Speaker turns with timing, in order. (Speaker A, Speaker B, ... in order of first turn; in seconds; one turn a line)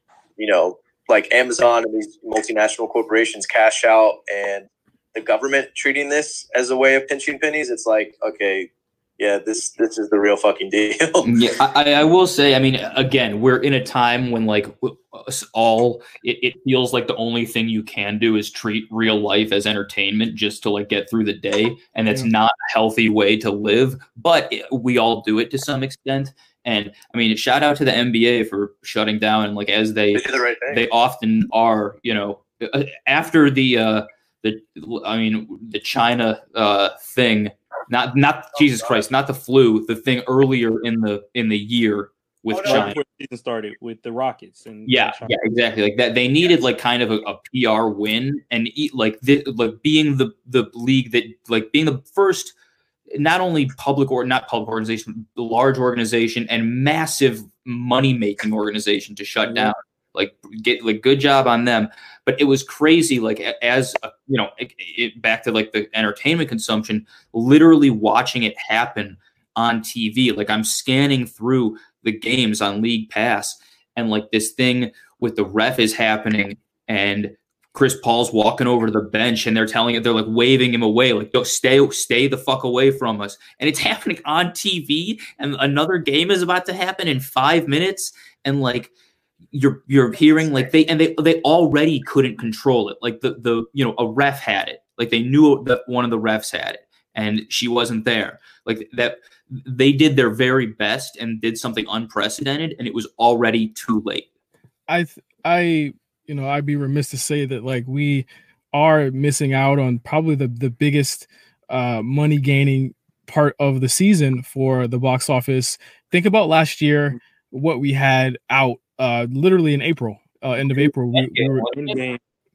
Speaker A: 0.4-11.3
Speaker B: 11.2-43.0
Speaker A: 30.1-30.8
Speaker A: 38.6-39.0
Speaker A: 42.5-42.9
Speaker C: 42.6-45.4
Speaker B: 44.9-52.5
Speaker B: 53.1-88.9
Speaker B: 89.5-104.3
Speaker A: 90.2-90.7
Speaker D: 104.9-121.7
Speaker B: 121.1-122.0
Speaker C: 121.7-122.2